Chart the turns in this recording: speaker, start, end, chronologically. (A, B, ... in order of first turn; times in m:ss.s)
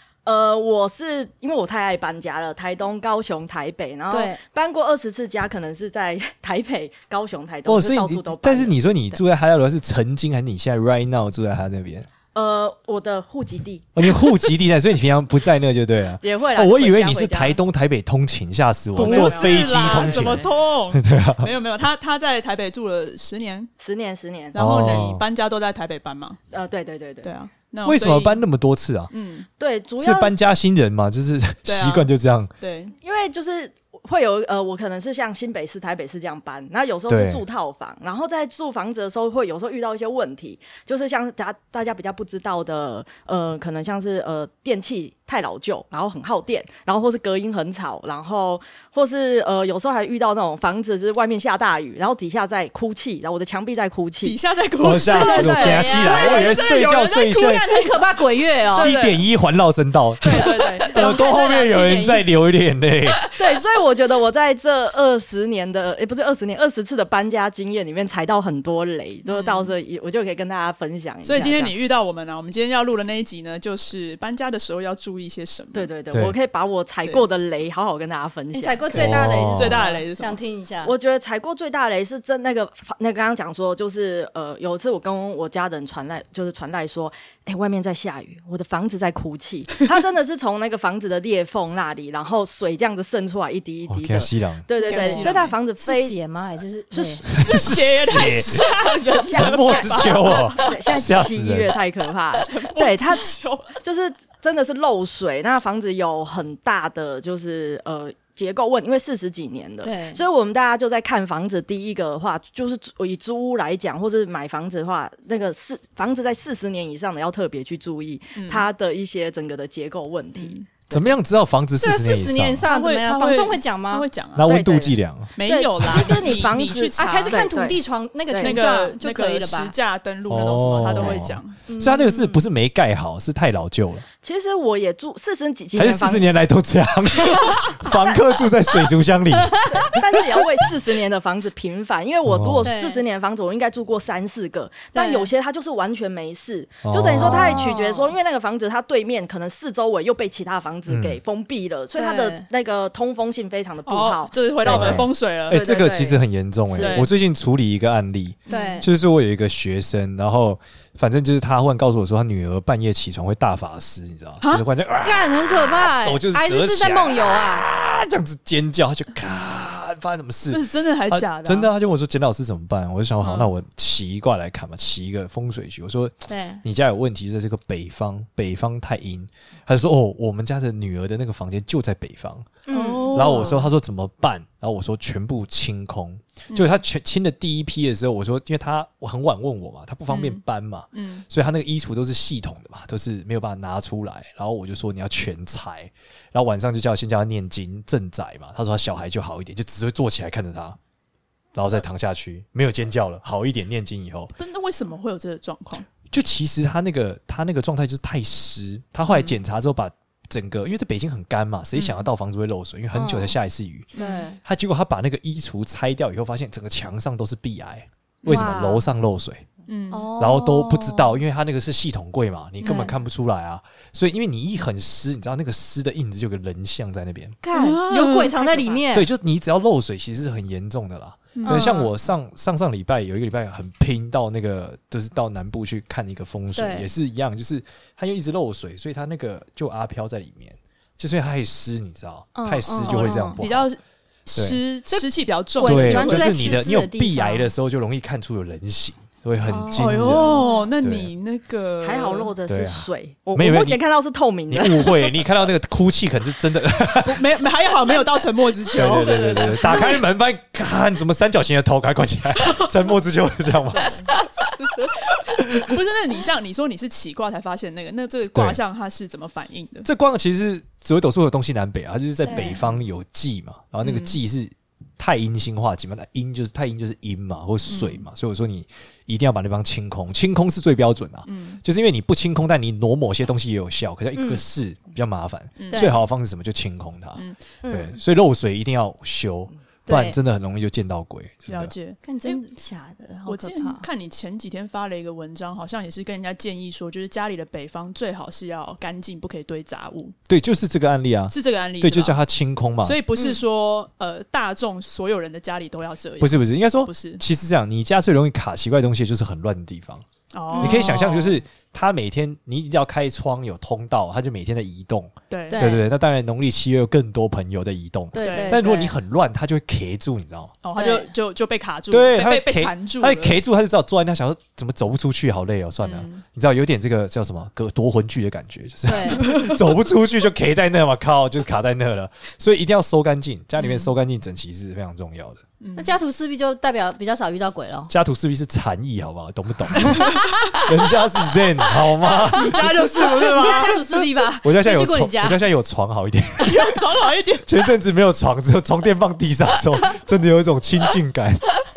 0:00.2-0:09.2 A
0:04.1-0:04.4 B
0:07.6-0:12.1 C
0:12.3-0:13.9 A
0:13.9-0:21.5 C
0:16.2-0:17.6 A
0:19.0-0:20.5 A
0:19.0-0:23.7 D
0:23.8-0:24.5 A
0:24.5-0:26.4 D
0:24.5-0:25.2 C
0:26.5-0:27.3 A
0:27.2-0:28.4 D
0:27.8-0:29.1 C
0:29.1-0:29.5 D
0:29.6-0:30.4 A
0:30.0-0:32.5 C
0:31.6-0:32.9 D
0:33.0-0:54.4 A
0:37.1-0:37.4 C
0:54.2-0:57.9 D
0:54.8-0:57.8 C
0:55.0-0:56.6 B
0:55.1-0:56.1 A
0:57.2-0:58.9 B
0:58.7-0:59.2 A
0:58.7-1:03.2 C
1:00.2-1:01.2 A
1:00.9-1:02.2 B
1:03.4-1:11.7 A
1:09.3-1:09.6 D
1:11.2-1:15.9 D
1:15.7-1:19.0 A
1:16.1-1:16.4 C
1:18.5-1:20.9 B
1:18.9-1:19.8 C
1:19.5-1:20.4 D
1:20.8-1:36.1 A
1:33.9-1:34.7 C
1:34.8-1:35.5 D
1:34.8-1:37.2 B
1:36.9-1:37.3 A
1:37.3-1:40.7 D
1:37.4-1:38.7 C
1:39.2-2:01.2 A
1:39.3-1:41.7 C
1:42.3-1:43.8 D
1:49.8-1:50.2 B
1:58.3-1:58.6 D
2:00.4-2:00.7 D
2:00.9-2:02.7 C
2:01.8-2:04.0 B
2:02.7-2:04.5 D
2:04.3-2:06.1 C
2:04.4-2:07.8 A
2:05.4-2:07.4 D
2:07.0-2:09.7 B
2:08.3-2:08.6 A
2:08.4-2:11.6 D
2:10.3-2:14.0 C
2:11.7-2:12.4 B
2:14.2-2:16.3 A
2:15.7-2:20.0 C
2:19.3-2:19.9 B
2:19.7-2:37.0 A
2:22.2-2:22.7 C
2:22.6-2:23.0 B
2:24.9-2:25.3 B
2:26.8-2:27.7 C
2:27.1-2:28.2 B
2:30.9-2:31.2 C
2:31.9-2:32.4 B
2:33.8-2:35.6 D
2:34.6-3:02.5 C
2:36.8-2:37.1 D
2:38.5-2:38.8 D
2:38.5-2:38.9 B
2:45.0-2:47.7 B
2:50.5-2:51.7 D
2:53.2-2:53.5 D
2:56.3-2:56.6 B
3:02.7-3:03.5 B
3:02.7-3:03.6 D
3:03.1-3:20.8 C
3:06.5-3:06.8 D
3:10.1-3:11.2 D
3:21.5-3:24.3 C
3:24.4-3:25.9 D
3:26.1-3:33.9 C
3:29.1-3:29.3 D
3:31.7-3:32.1 D
3:32.9-3:33.4 B
3:34.0-3:34.2 D
3:34.0-3:34.4 B
3:34.4-3:39.4 C
3:38.2-3:38.6 D
3:38.2-3:38.8 B
3:39.7-3:40.0 D
3:39.9-3:41.2 B
3:40.2-3:47.4 C
3:42.6-3:42.9 B
3:47.4-3:49.1 B
3:47.5-3:48.3 D
3:48.3-3:48.8 A
3:48.9-4:03.7 C
3:51.3-3:51.7 D
3:51.4-3:51.9 B
3:56.5-3:56.9 B
4:02.4-4:03.4 B
4:02.8-4:06.8 D
4:04.3-4:04.6 C
4:04.9-4:07.5 B
4:05.6-4:11.1 C
4:09.4-4:10.7 B
4:09.7-4:12.3 D
4:11.8-4:15.1 A
4:12.5-4:13.8 C
4:14.5-4:17.3 C
4:17.0-4:20.0 D
4:18.7-4:24.1 C
4:19.7-4:20.0 B
4:24.1-4:29.9 D
4:28.3-4:28.6 C
4:29.8-4:51.7 C
4:32.3-4:32.7 B
4:33.8-4:34.2 D
4:37.7-4:38.0 D
4:41.2-4:41.6 D
4:44.1-4:44.4 B
4:45.6-4:45.9 D
4:45.7-4:46.0 B
4:47.2-4:47.4 D
4:47.6-4:48.0 B
4:49.9-4:50.2 B
4:51.5-4:52.4 D
4:52.0-4:53.8 B
4:53.2-5:00.2 D
5:00.3-5:03.0 C
5:01.3-5:02.2 D
5:02.8-5:07.2 D
5:06.2-5:10.0 C
5:10.3-5:11.4 D
5:10.5-5:11.0 B
5:10.6-5:20.5 C
5:15.3-5:15.7 D
5:15.5-5:15.9 B
5:18.1-5:18.9 B
5:18.2-5:18.8 D
5:20.6-5:23.4 D
5:20.7-5:21.1 B
5:21.9-5:35.4 C
5:25.8-5:26.2 D
5:28.9-5:29.3 B
5:29.2-5:29.6 D
5:33.6-5:33.9 D
5:35.6-5:36.0 D
5:35.8-5:37.9 B
5:37.9-5:43.6 C
5:39.8-5:40.6 B
5:42.3-5:43.8 D
5:42.5-5:45.4 B
5:44.4-5:46.7 C
5:46.4-5:47.5 D
5:47.4-5:51.4 C